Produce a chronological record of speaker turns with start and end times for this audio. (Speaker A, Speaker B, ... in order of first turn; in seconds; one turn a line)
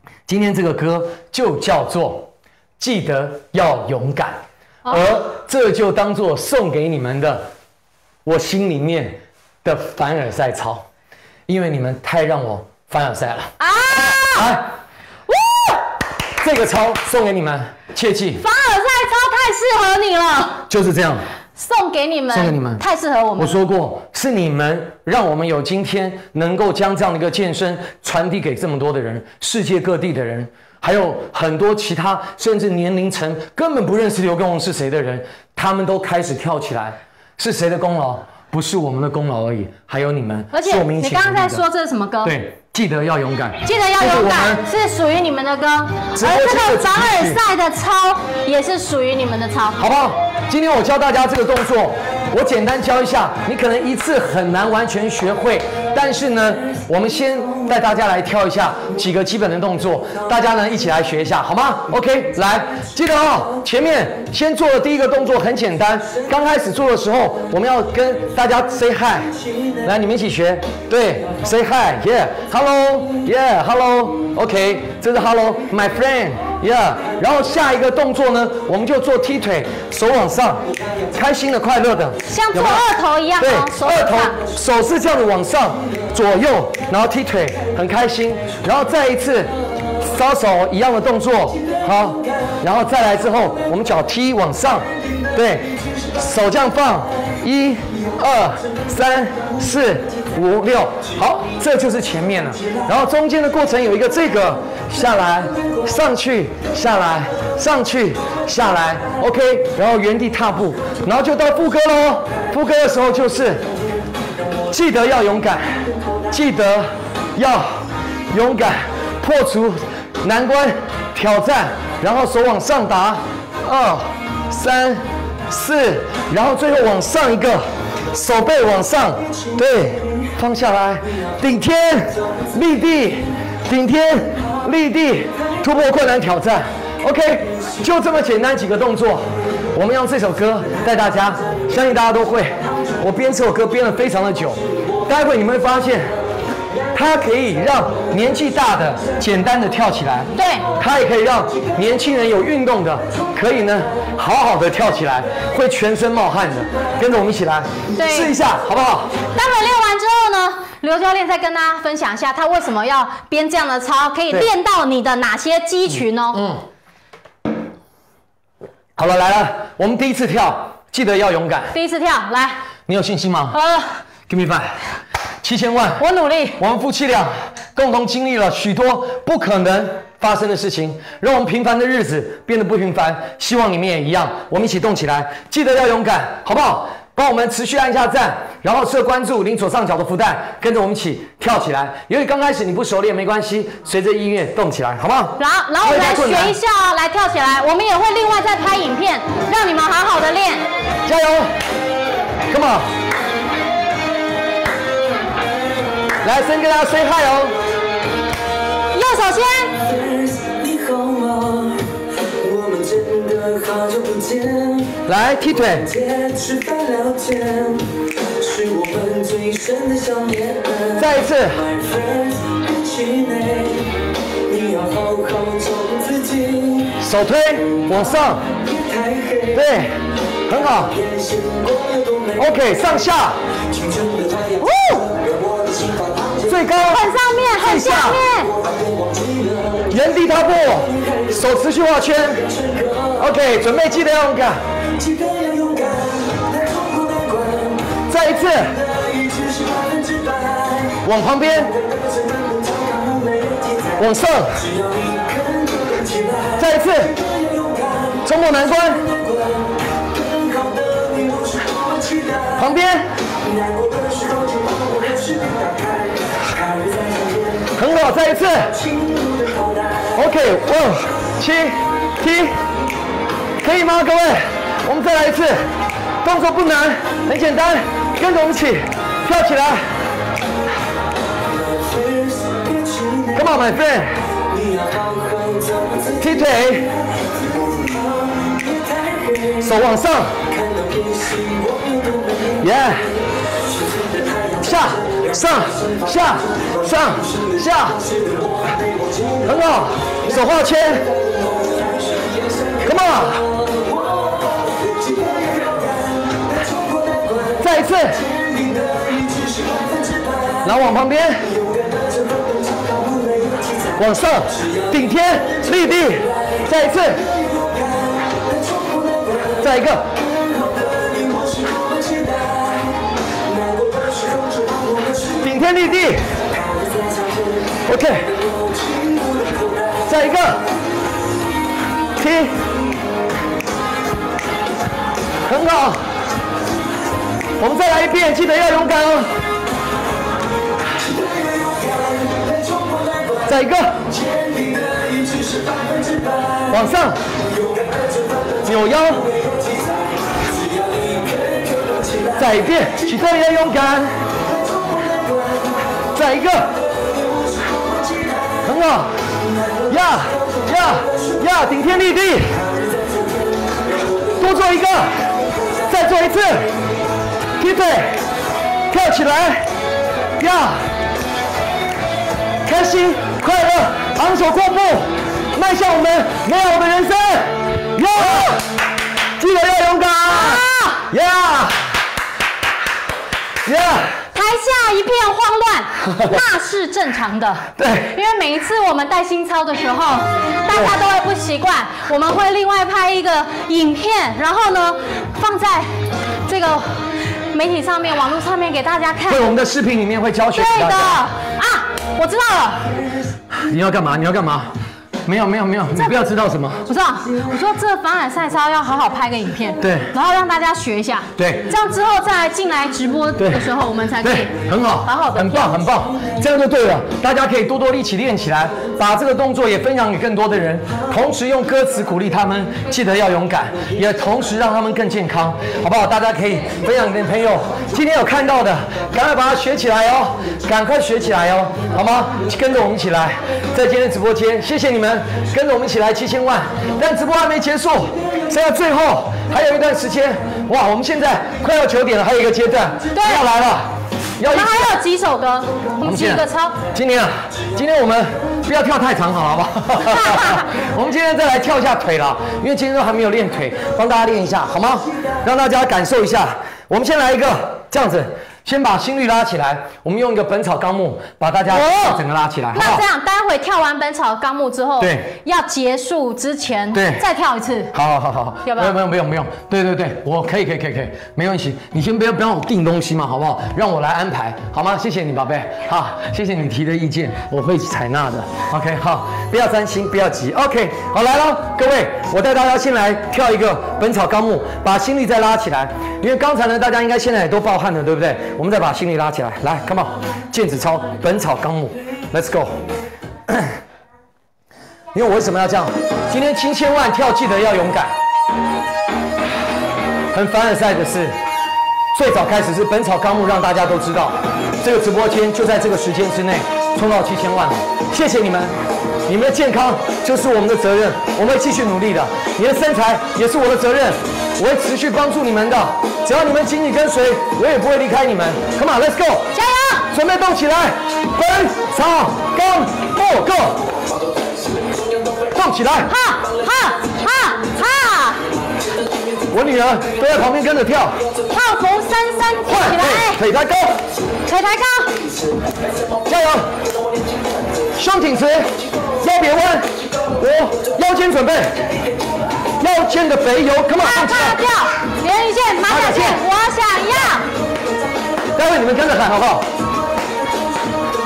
Speaker A: 0.3-7.5
Speaker A: 8.2-10.8
Speaker A: 11.5-13.5
Speaker B: 13.6-14.5
Speaker A: 14.1-14.7
Speaker B: 15.3-15.8
Speaker A: 16.4-18.4
Speaker B: 18.4-20.6
Speaker A: 20.7-21.2
Speaker B: 21.6-23.6
Speaker A: 22.3-22.8
Speaker A: 23.4-41.6
Speaker B: 40.5-42.3
Speaker A: 42.2-44.6
Speaker B: 43.6-49.8
Speaker A: 46.1-47.4
Speaker A: 49.8-82.8
Speaker B: 82.3-84.4
Speaker A: 83.4-113.7
Speaker A: 114.7-146.1
Speaker A: 146.9-159.2
Speaker B: 150.3-150.7
Speaker B: 157.9-158.3
Speaker B: 159.3-166.4
Speaker A: 166.3-166.6
Speaker A: 169.0-171.8
Speaker B: 171.7-172.6
Speaker A: 172.9-173.6
Speaker B: 173.5-174.0
Speaker A: 174.3-174.8
Speaker A: 175.4-176.0
Speaker B: 176.0-176.6
Speaker A: 176.6-196.5
Speaker B: 195.4-200.7
Speaker A: 201.1-201.5
Speaker A: 202.5-202.9
Speaker A: 206.2-207.6
Speaker B: 208.9-209.7
Speaker C: 209.8-215.0
Speaker A: 215.1-215.9
Speaker C: 215.8-226.9
Speaker A: 220.9-221.6
Speaker A: 227.0-228.4
Speaker C: 228.6-229.6
Speaker A: 229.5-231.0
Speaker C: 231.0-232.4
Speaker A: 232.4-233.4
Speaker C: 233.7-236.5
Speaker B: 234.6-235.1
Speaker A: 236.4-237.0
Speaker B: 236.9-238.5
Speaker A: 237.6-238.2
Speaker C: 238.4-239.9
Speaker A: 239.9-242.5
Speaker C: 240.9-241.3
Speaker C: 242.5-243.2
Speaker A: 243.2-244.6
Speaker C: 244.9-248.0
Speaker A: 248.1-248.8
Speaker C: 248.8-251.0
Speaker A: 251.0-251.7
Speaker C: 251.6-254.0
Speaker A: 254.0-254.7
Speaker C: 254.6-262.6
Speaker A: 256.6-257.1
Speaker A: 258.2-259.1
Speaker A: 262.6-263.1
Speaker C: 263.4-267.7
Speaker A: 267.7-268.7
Speaker C: 268.7-270.2
Speaker A: 270.1-272.6
Speaker A: 273.6-275.7
Speaker A: 276.2-279.9
Speaker C: 281.5-283.4
Speaker A: 283.3-284.2
Speaker C: 284.4-286.5
Speaker A: 286.2-286.9
Speaker C: 287.3-289.6
Speaker A: 289.6-290.4
Speaker C: 290.5-292.6
Speaker A: 292.6-293.1
Speaker C: 293.9-295.2
Speaker A: 294.6-298.0
Speaker C: 298.0-299.4
Speaker A: 299.4-301.1
Speaker C: 301.1-302.8
Speaker A: 302.8-303.5
Speaker C: 303.5-310.6
Speaker A: 307.6-308.2
Speaker A: 310.6-311.5
Speaker C: 311.5-314.0
Speaker A: 313.9-317.2
Speaker C: 317.3-319.6
Speaker A: 319.6-320.1
Speaker C: 320.2-325.5
Speaker A: 325.4-326.3
Speaker C: 326.5-327.8
Speaker A: 327.8-328.4
Speaker C: 328.4-330.1
Speaker A: 330.1-330.6
Speaker A: 332.2-332.6
Speaker A: 335.4-336.1
Speaker A: 337.6-339.3
Speaker C: 341.0-343.5
Speaker A: 343.4-344.0
Speaker C: 344.0-346.8
Speaker A: 346.7-347.2
Speaker C: 347.5-348.6
Speaker A: 348.6-349.3
Speaker C: 349.2-352.4
Speaker A: 352.4-354.2
Speaker C: 354.4-355.9
Speaker A: 356.1-356.8
Speaker C: 357.2-358.6
Speaker A: 358.6-359.1
Speaker C: 359.7-361.2
Speaker A: 359.9-362.6
Speaker C: 362.7-364.3
Speaker A: 364.4-365.3
Speaker A: 365.9-366.7
Speaker A: 367.6-368.2
Speaker A: 368.9-369.7
Speaker A: 370.4-370.8
Speaker A: 372.6-378.6
Speaker B: 378.2-378.6
Speaker A: 379.4-382.0
Speaker B: 380.3-381.1
Speaker A: 383.6-384.2
Speaker B: 384.3-395.9
Speaker A: 386.0-386.4
Speaker A: 387.8-388.2
Speaker B: 396.4-399.5
Speaker A: 399.3-401.2
Speaker B: 400.5-402.9
Speaker A: 403.5-404.7
Speaker A: 405.2-406.9
Speaker B: 406.9-415.8
Speaker A: 409.8-410.1
Speaker A: 411.4-411.7
Speaker A: 413.4-413.7
Speaker A: 414.2-445.0
Speaker B: 443.1-443.5
Speaker B: 444.4-446.8
Speaker A: 446.0-463.0
Speaker B: 450.0-450.7
Speaker B: 461.7-462.2
Speaker B: 462.7-467.9
Speaker A: 465.0-465.3
Speaker A: 466.9-467.2
Speaker A: 467.9-492.8
Speaker B: 468.6-468.9
Speaker A: 493.5-493.8
Speaker A: 495.1-498.1
Speaker A: 500.3-501.4
Speaker A: 502.1-508.8
Speaker A: 509.3-519.5
Speaker B: 519.5-520.1
Speaker A: 520.1-523.8
Speaker A: 525.5-526.1
Speaker B: 526.0-528.5
Speaker A: 529.5-531.2
Speaker B: 531.5-533.4
Speaker A: 532.6-534.0
Speaker B: 534.5-535.2
Speaker A: 536.2-536.7
Speaker A: 538.0-541.8
Speaker A: 542.8-544.6
Speaker B: 544.0-547.5
Speaker A: 545.9-546.4
Speaker A: 548.5-549.7